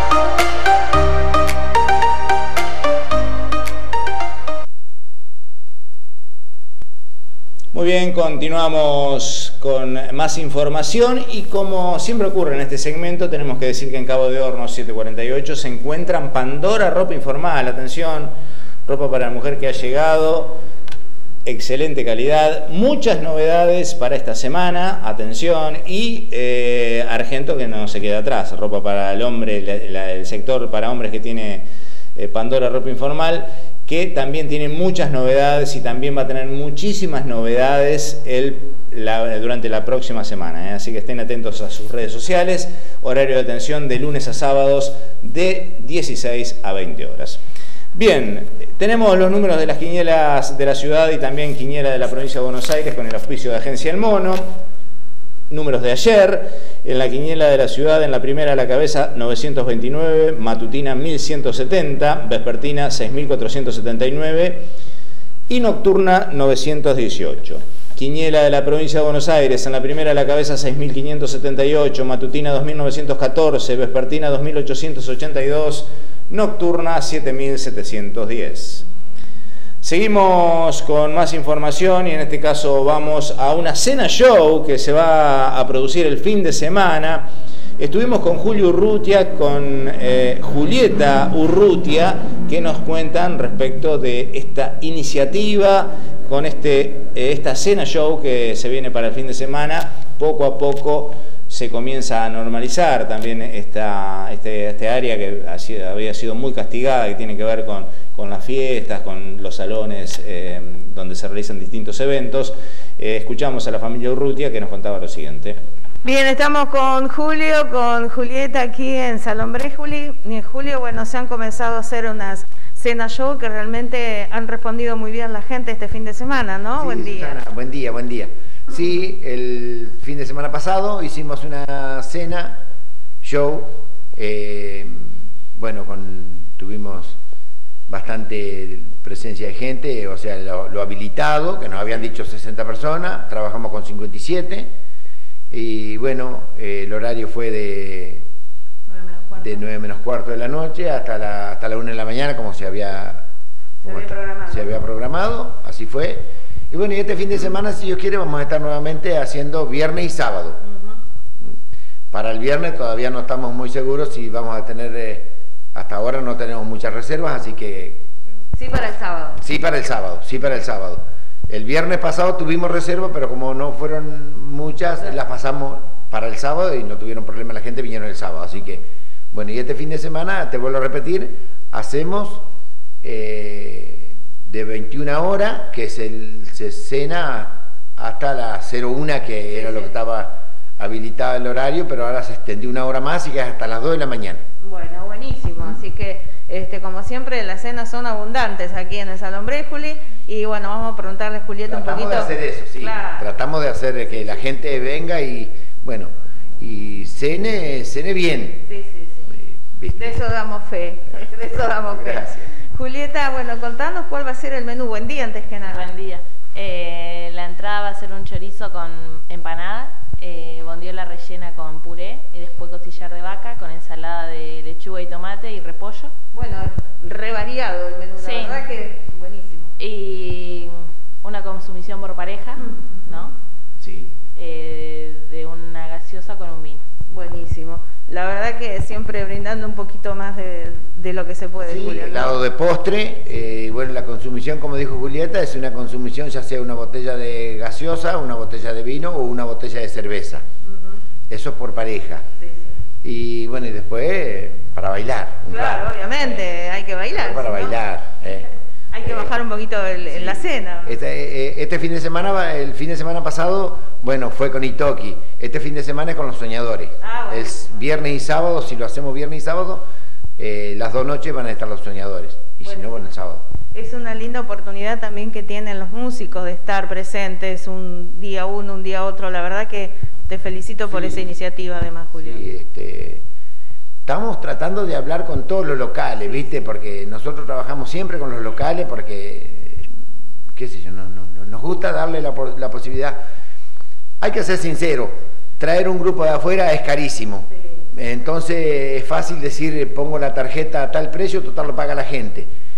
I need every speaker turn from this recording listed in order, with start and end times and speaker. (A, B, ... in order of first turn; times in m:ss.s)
0:07.7-0:18.3 A
0:18.9-0:20.6 A
0:21.4-0:31.6 A
0:32.2-0:47.4 A
0:47.9-0:54.4 A
0:55.5-1:04.7 A
1:05.5-1:18.8 A
1:19.8-1:55.6 A
1:56.0-2:07.4 B
2:06.8-2:12.6 C
2:13.2-2:17.2 C
2:17.9-2:24.7 C
2:25.5-2:28.2 C
2:28.9-2:29.6 B
2:29.4-2:33.2 C
2:33.8-2:40.6 C
2:33.8-2:34.8 B
2:40.7-2:40.9 B
2:42.1-2:48.1 C
2:48.6-2:49.4 B
2:49.4-3:02.4 C
3:03.0-3:14.4 C
3:09.5-3:09.9 B
3:14.6-3:23.2 B
3:21.6-3:28.6 C
3:28.7-3:29.3 B
3:29.3-3:30.2 C
3:29.9-3:35.9 B
3:31.1-3:32.5 C
3:35.6-3:46.1 D
3:46.3-3:49.7 B
3:48.2-3:48.6 D
3:49.8-3:53.3 D
3:52.6-3:53.0 B
3:53.8-3:54.1 C
3:54.4-3:56.8 D
3:57.1-4:02.4 B
4:01.6-4:10.4 C
4:10.6-4:11.0 B
4:11.3-4:12.2 C
4:12.4-4:12.7 B
4:13.0-4:16.4 C
4:15.5-4:17.8 B
4:17.1-4:18.4 C
4:18.9-4:21.0 B
4:19.0-4:19.4 C
4:20.1-4:29.9 C
4:27.0-4:28.0 B
4:30.4-4:33.4 C
4:32.6-4:33.0 B
4:33.7-4:42.4 B
4:40.9-4:41.3 C
4:42.2-4:43.2 C
4:44.0-4:49.9 C
4:50.5-4:53.2 C
4:54.2-5:02.5 C